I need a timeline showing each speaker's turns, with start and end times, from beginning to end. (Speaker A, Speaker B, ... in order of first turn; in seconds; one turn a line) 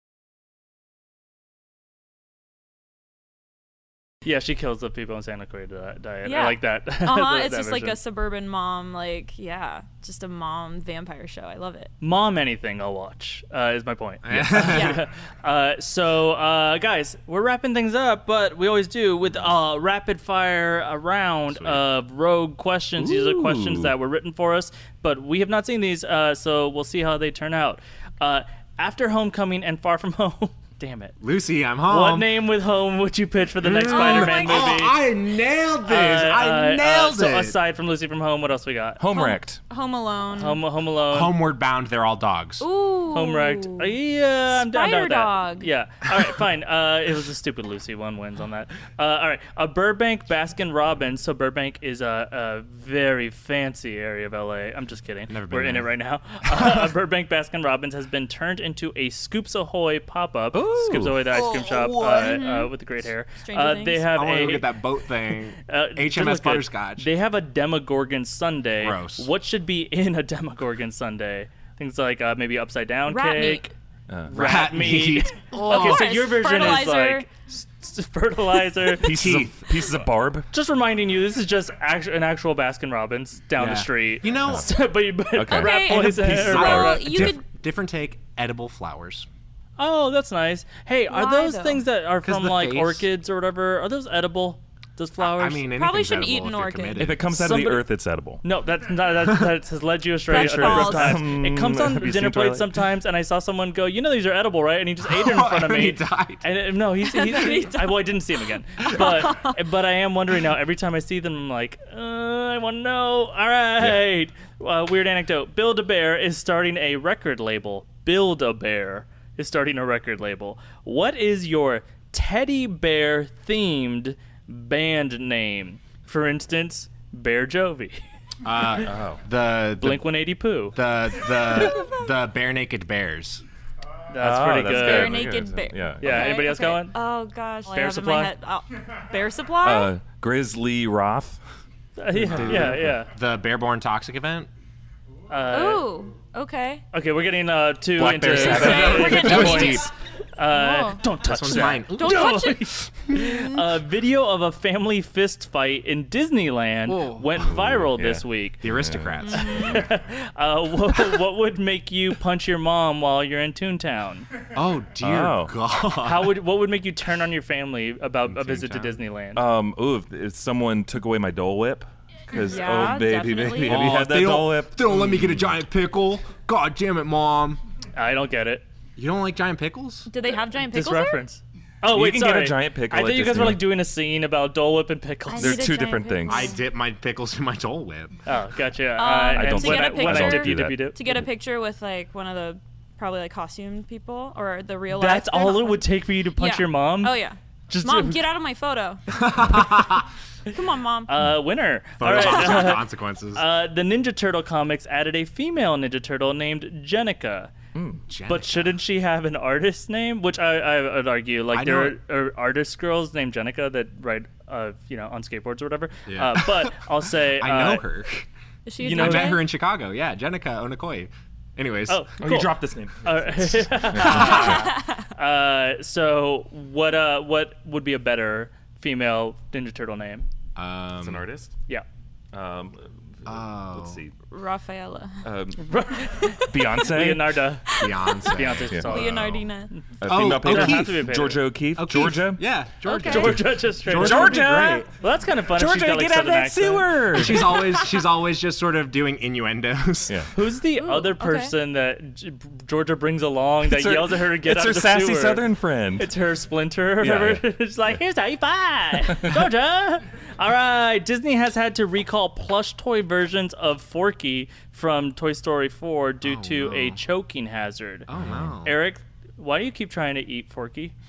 Speaker A: 4.2-8.0
Speaker B: 6.2-11.9
Speaker A: 12.0-31.1
Speaker C: 14.2-15.0
Speaker B: 14.6-15.0
Speaker D: 21.5-21.8
Speaker D: 23.0-23.9
Speaker C: 31.2-32.3
Speaker A: 31.9-35.0
Speaker C: 33.6-37.6
Speaker B: 33.9-34.9
Speaker A: 35.9-39.0
Speaker D: 39.0-39.6
Speaker B: 39.1-40.6
Speaker A: 40.3-41.4
Speaker C: 41.1-42.7
Speaker B: 42.6-43.9
Speaker A: 43.1-64.7
Speaker B: 44.5-45.7
Speaker C: 55.3-55.9
Speaker C: 56.4-56.9
Speaker C: 60.7-62.5
Speaker D: 60.7-61.1
Speaker B: 62.2-62.7
Speaker B: 63.4-64.1
Speaker C: 64.1-67.1
Speaker A: 65.7-73.7
Speaker C: 68.8-69.3
Speaker B: 73.1-73.7
Speaker D: 74.1-74.7
Speaker C: 74.3-76.8
Speaker A: 74.3-79.2
Speaker B: 75.5-77.3
Speaker D: 79.0-80.5
Speaker C: 79.0-79.9
Speaker A: 80.5-87.3
Speaker C: 83.6-84.7
Speaker D: 85.3-87.4
Speaker B: 85.5-87.4
Speaker C: 86.3-89.3
Speaker A: 89.8-95.7
Speaker B: 91.1-91.8
Speaker C: 92.2-93.1
Speaker C: 95.2-97.2
Speaker B: 95.7-97.0
Speaker D: 97.0-98.4
Speaker A: 97.3-97.8
Speaker A: 98.4-128.1
Speaker C: 99.2-99.5
Speaker B: 100.3-101.3
Speaker D: 100.3-102.8
Speaker C: 105.0-106.5
Speaker B: 107.1-107.9
Speaker B: 108.8-109.6
Speaker C: 128.4-130.1
Speaker D: 128.8-129.2
Speaker A: 129.8-130.8
Speaker C: 130.7-133.4
Speaker B: 131.5-131.9
Speaker A: 134.1-135.2
Speaker D: 134.2-136.4
Speaker B: 134.7-139.9
Speaker A: 136.0-137.0
Speaker A: 137.7-138.3
Speaker D: 139.6-141.4
Speaker A: 142.0-143.1
Speaker C: 142.2-144.5
Speaker D: 142.2-142.8
Speaker A: 145.3-145.9
Speaker B: 145.5-146.8
Speaker A: 146.9-158.6
Speaker D: 148.0-149.8
Speaker C: 148.4-149.9
Speaker B: 148.4-149.9
Speaker B: 150.5-152.8
Speaker C: 151.2-152.4
Speaker C: 153.0-153.6
Speaker C: 156.9-157.4
Speaker D: 157.4-159.4
Speaker C: 158.6-159.9
Speaker B: 159.2-159.9
Speaker A: 159.3-164.3
Speaker C: 164.5-166.3
Speaker D: 165.0-165.6
Speaker A: 166.0-169.5
Speaker C: 168.3-169.0
Speaker D: 169.4-175.4
Speaker B: 172.3-173.9
Speaker C: 173.6-177.6
Speaker A: 177.9-178.7
Speaker C: 179.0-180.1
Speaker B: 180.1-181.2
Speaker A: 180.7-185.7
Speaker D: 181.9-183.7
Speaker B: 185.3-186.6
Speaker D: 185.4-186.5
Speaker C: 186.3-188.2
Speaker A: 188.3-191.1
Speaker B: 189.0-199.3
Speaker D: 189.3-190.9
Speaker A: 194.9-198.2
Speaker C: 199.1-200.1
Speaker B: 200.5-201.1
Speaker A: 201.1-207.6
Speaker C: 202.0-203.4
Speaker B: 202.2-202.8
Speaker D: 207.8-208.0
Speaker C: 208.1-208.8
Speaker A: 208.3-217.8
Speaker C: 211.5-212.0
Speaker C: 216.1-218.3
Speaker B: 218.7-219.4
Speaker A: 218.8-219.4
Speaker C: 218.8-222.2
Speaker A: 221.9-230.3
Speaker D: 222.2-224.7
Speaker C: 223.9-224.7
Speaker B: 224.3-225.0
Speaker C: 230.6-231.2
Speaker D: 231.0-231.5
Speaker D: 232.3-234.2
Speaker C: 233.3-234.0
Speaker B: 234.3-235.2
Speaker D: 235.2-235.7
Speaker A: 235.6-241.4
Speaker D: 236.4-237.4
Speaker B: 237.7-239.7
Speaker C: 237.8-239.4
Speaker D: 240.0-242.4
Speaker C: 240.0-241.1
Speaker C: 241.8-244.9
Speaker B: 242.8-243.3
Speaker A: 242.9-247.1
Speaker D: 243.9-244.8
Speaker D: 245.5-247.7
Speaker C: 247.1-250.2
Speaker A: 250.3-268.1
Speaker B: 250.8-251.5
Speaker D: 253.7-256.1
Speaker D: 257.0-257.5
Speaker D: 259.1-259.4
Speaker C: 266.2-267.0
Speaker C: 268.1-268.8
Speaker D: 268.1-268.6
Speaker A: 268.6-270.9